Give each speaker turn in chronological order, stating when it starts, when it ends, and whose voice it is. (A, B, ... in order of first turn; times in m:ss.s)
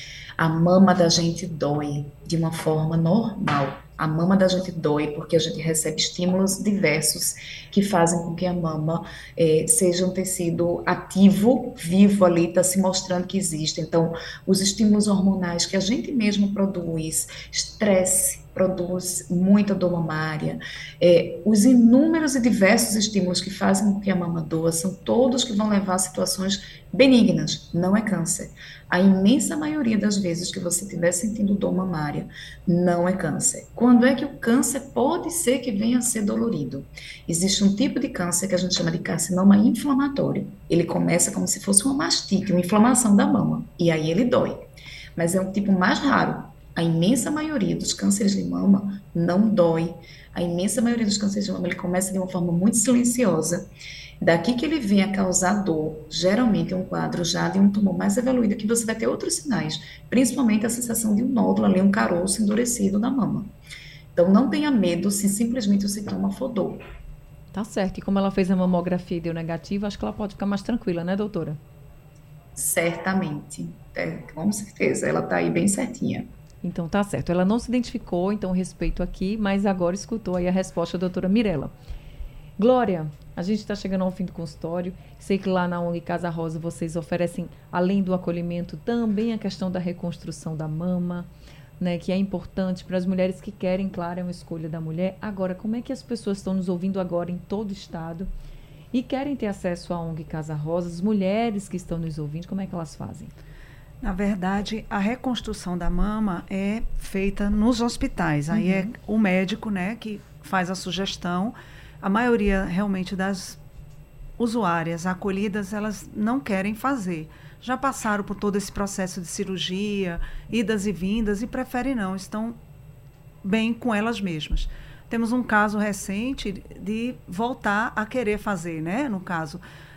0:00.4-0:53.6 A
0:54.2-1:03.5 A
1:04.1-1:06.8 A
1:07.5-1:11.6 B
1:12.6-1:16.3 A
1:16.6-1:21.7 B
1:22.6-1:31.3 B
1:31.8-1:38.3 B
1:38.9-1:43.3 B
1:44.0-1:53.6 C
1:48.5-1:48.9 B
1:54.4-2:02.6 C
2:03.4-2:09.6 C